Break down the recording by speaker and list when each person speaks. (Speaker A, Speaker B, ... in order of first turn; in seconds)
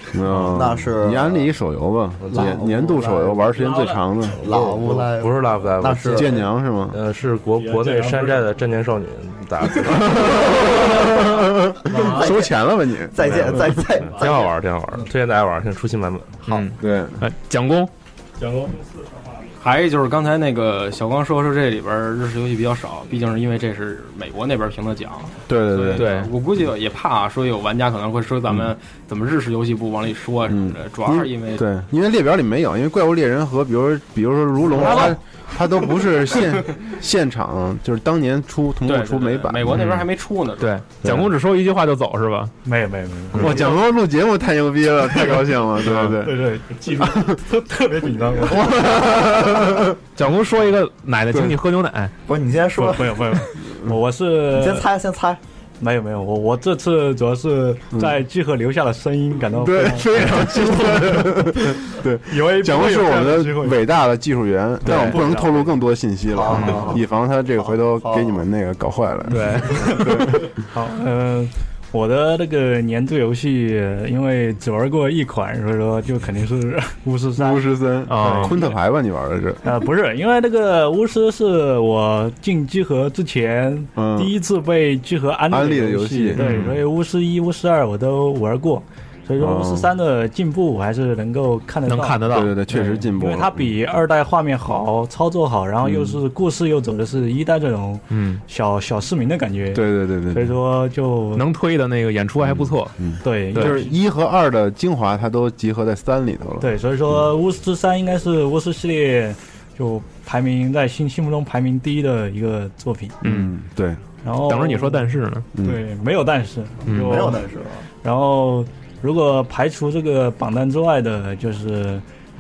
Speaker A: 0.1-4.5, 6.0-7.0, 9.9-13.7, 16.8-17.2, 25.5-26.1, 30.5-40.0, 41.0-41.3, 43.4-46.5, 47.0-47.4, 48.4-50.0, 59.5-70.6, 77.4-79.6, 84.0-84.4, 85.5-86.8, 89.4-89.9, 92.3-93.7, 95.8-96.2, 99.7-100.6, 102.4-107.3, 113.2-114.0
Speaker B: 0.3-1.5, 2.3-3.1, 4.4-6.5, 11.9-12.6, 13.1-14.6, 52.3-53.4, 54.5-55.4, 66.3-67.0, 67.6-68.4, 117.0-117.8
Speaker C: 2.2-2.6, 4.3-10.4, 13.9-16.4
Speaker D: 7.5-8.5, 10.6-11.1, 11.8-12.3, 18.4-18.9
Speaker E: 16.4-17.9, 25.9-26.3, 34.8-35.1, 39.6-42.5, 43.3-43.8, 49.2-52.1, 64.8-65.2, 69.3-69.9, 78.1-78.7, 86.4-86.8, 91.9-92.6, 98.1-98.4, 101.3-103.0, 103.5-103.9, 113.2-113.5, 114.4-115.5, 116.9-117.4
Speaker F: 19.6-31.7, 38.8-40.8
Speaker G: 42.6-43.6, 46.0-49.6, 52.8-54.9, 55.8-63.9, 64.9-65.8, 69.8-78.5, 79.6-101.5, 103.2-103.9, 106.6-113.2, 114.2-117.4, 118.0-122.0